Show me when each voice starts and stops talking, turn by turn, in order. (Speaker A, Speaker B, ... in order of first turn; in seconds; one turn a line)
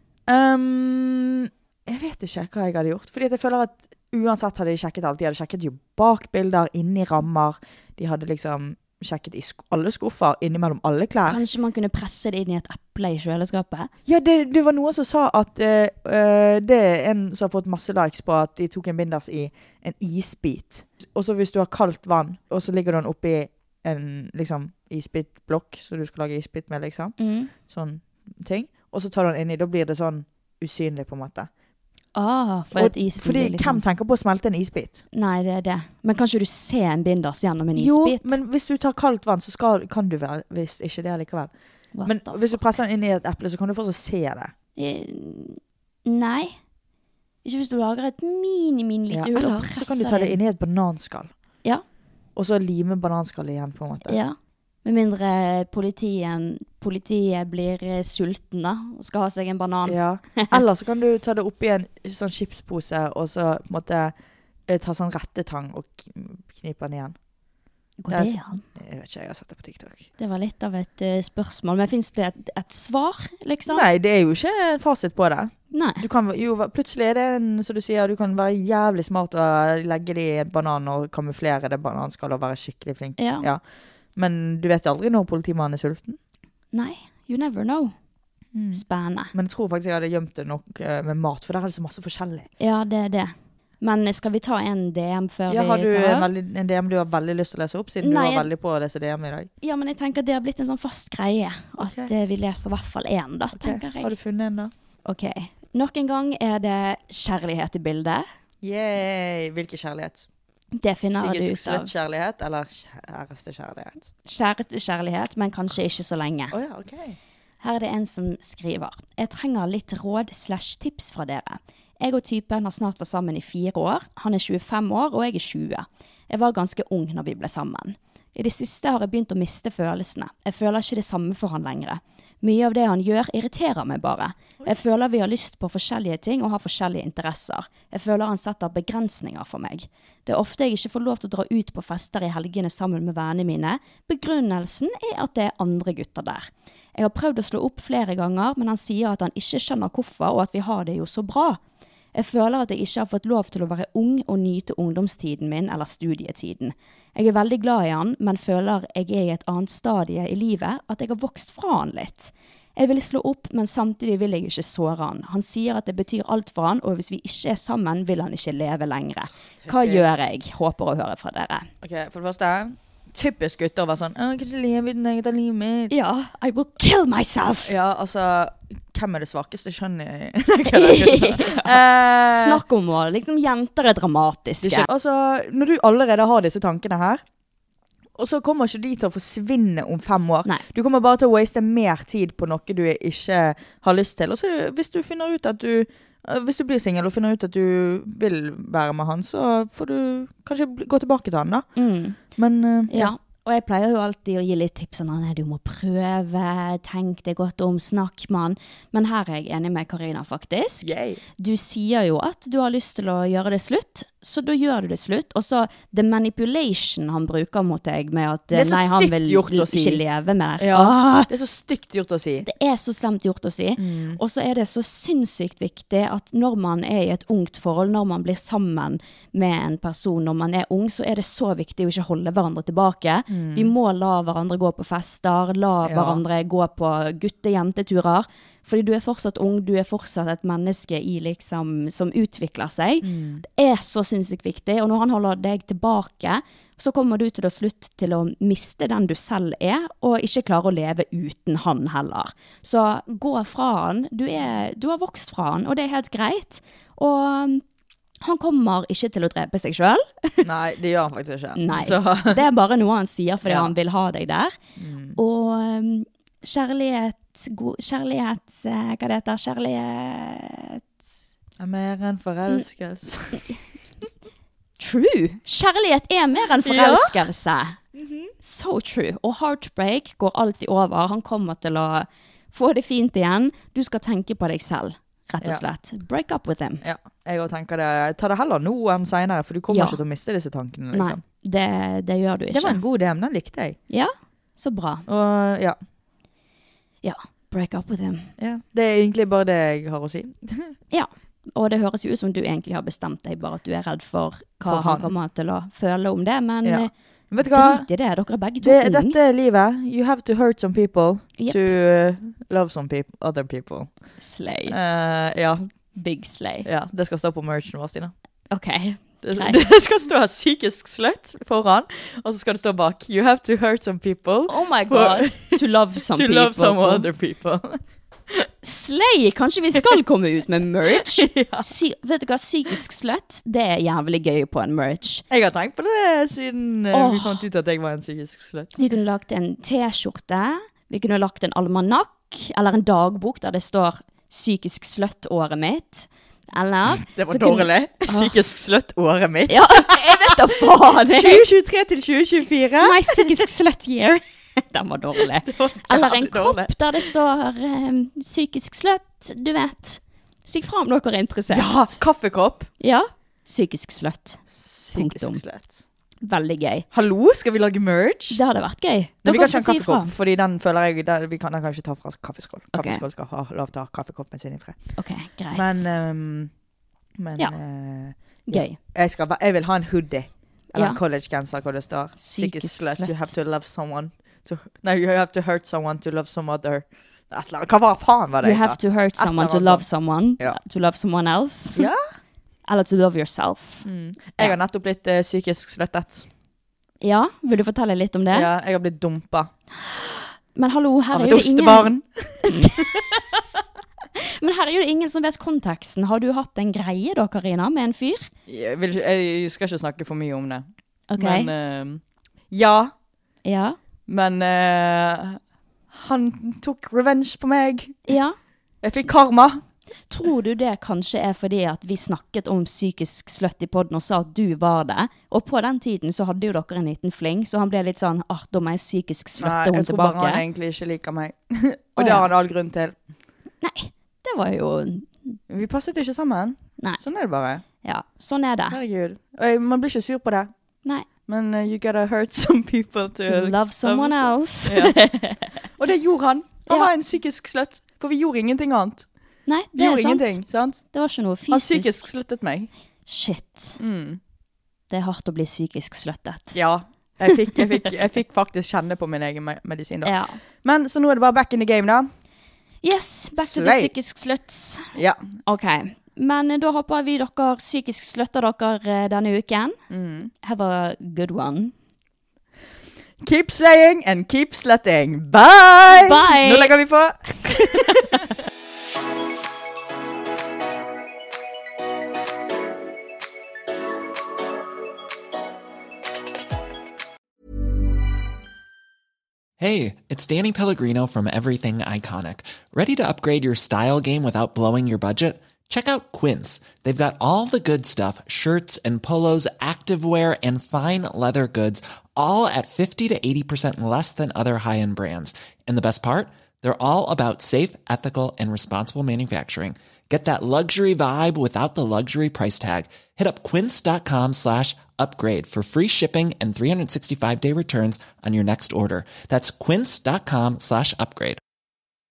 Speaker A: 0.3-11.4
Speaker B: 11.3-13.9
Speaker A: 14.1-31.5
Speaker B: 27.2-27.5
Speaker B: 32.1-33.8
Speaker A: 32.8-35.0
Speaker B: 35.1-38.4
Speaker A: 37.8-41.5
Speaker B: 41.9-42.8
Speaker A: 42.0-44.5
Speaker B: 44.8-46.6
Speaker B: 47.4-50.4
Speaker A: 49.1-51.3
Speaker A: 52.4-54.2
Speaker B: 54.1-60.6
Speaker A: 59.9-64.2
Speaker A: 64.7-67.2
Speaker B: 68.0-68.6
Speaker A: 68.1-70.1
Speaker B: 70.2-73.9
Speaker A: 73.7-83.6
Speaker B: 75.7-76.0
Speaker B: 83.2-83.5
Speaker A: 84.2-86.2
Speaker B: 86.7-87.9
Speaker A: 88.5-92.5
Speaker B: 88.7-89.3
Speaker B: 92.6-96.3
Speaker A: 95.5-99.5
Speaker B: 98.0-98.5
Speaker B: 99.6-104.1
Speaker A: 101.8-102.1
Speaker A: 103.6-104.7
Speaker B: 105.0-108.2
Speaker A: 108.6-110.3
Speaker B: 110.8-111.9
Speaker A: 111.1-114.1
Speaker B: 114.2-116.6
Speaker A: 116.5-117.2
Speaker B: 117.6-151.6
Speaker B: 152.1-171.7
Speaker A: 169.6-170.1
Speaker A: 171.8-175.9
Speaker B: 175.9-177.8
Speaker A: 177.7-182.6
Speaker B: 180.7-184.9
Speaker A: 184.6-187.2
Speaker A: 188.2-203.1
Speaker B: 201.8-202.2
Speaker B: 202.9-221.3
Speaker A: 210.8-211.2
Speaker A: 218.5-220.0
Speaker A: 220.6-222.5
Speaker B: 222.4-257.6
Speaker A: 223.8-224.2
Speaker A: 233.3-233.7
Speaker A: 235.8-236.2
Speaker A: 243.0-243.4
Speaker B: 258.2-260.5
Speaker A: 260.4-262.4
Speaker B: 261.6-264.6
Speaker A: 263.4-263.8
Speaker A: 264.8-265.2
Speaker B: 265.2-270.8
Speaker A: 271.6-273.5
Speaker B: 274.8-277.8
Speaker A: 276.6-277.2
Speaker A: 277.9-278.3
Speaker B: 278.4-286.8
Speaker A: 286.8-291.2
Speaker B: 289.7-290.0
Speaker B: 290.9-292.8
Speaker A: 292.5-293.8
Speaker B: 293.9-295.1
Speaker A: 295.1-295.8
Speaker B: 297.0-298.3
Speaker A: 298.4-300.8
Speaker B: 300.9-309.2
Speaker A: 304.6-305.1
Speaker A: 306.6-307.9
Speaker A: 308.6-313.9
Speaker B: 311.4-311.7
Speaker B: 314.2-314.8
Speaker A: 314.7-315.7
Speaker B: 315.9-316.7
Speaker A: 316.6-318.1
Speaker B: 318.5-319.6
Speaker A: 319.2-327.8
Speaker B: 324.5-327.1
Speaker B: 328.6-335.2
Speaker A: 330.9-331.7
Speaker A: 335.3-338.8
Speaker B: 336.9-337.4
Speaker B: 338.8-348.3
Speaker A: 347.1-350.4
Speaker B: 349.5-351.4
Speaker A: 351.0-353.4
Speaker B: 352.8-362.0
Speaker A: 355.2-357.1
Speaker A: 361.5-362.7
Speaker B: 362.8-365.4
Speaker A: 364.5-365.8
Speaker B: 366.2-366.9
Speaker A: 366.9-368.4
Speaker B: 368.3-370.1
Speaker A: 369.2-374.8
Speaker B: 372.7-373.0
Speaker B: 375.0-375.9
Speaker A: 375.5-376.5
Speaker A: 377.2-389.9
Speaker B: 378.5-378.8
Speaker B: 380.7-381.0
Speaker B: 382.2-383.3
Speaker B: 388.4-391.9
Speaker A: 391.8-392.0
Speaker B: 392.7-393.9
Speaker A: 393.8-396.3
Speaker B: 397.0-398.5
Speaker A: 398.3-399.5
Speaker B: 399.9-401.9
Speaker A: 401.1-403.0
Speaker B: 402.5-403.1
Speaker B: 404.4-408.3
Speaker A: 408.5-412.9
Speaker B: 411.1-411.5
Speaker B: 413.4-413.8
Speaker A: 414.1-415.4
Speaker A: 415.9-418.1
Speaker B: 418.1-418.4
Speaker A: 418.8-419.6
Speaker B: 420.1-430.4
Speaker A: 429.4-433.0
Speaker B: 432.0-432.3
Speaker B: 433.6-435.4
Speaker A: 435.5-437.6
Speaker B: 437.8-438.8
Speaker A: 438.7-440.5
Speaker A: 441.3-449.1
Speaker B: 443.2-445.4
Speaker B: 449.5-452.1
Speaker A: 449.7-450.8
Speaker A: 451.5-452.7
Speaker B: 453.1-453.8
Speaker A: 453.8-454.2
Speaker B: 454.9-456.6
Speaker A: 456.5-462.1
Speaker B: 460.0-460.4
Speaker B: 462.8-469.8
Speaker A: 463.4-463.9
Speaker A: 464.9-465.3
Speaker A: 469.9-470.3
Speaker B: 470.4-471.7
Speaker A: 473.2-478.1
Speaker B: 475.9-476.7
Speaker B: 477.5-478.0
Speaker C: 489.6-521.4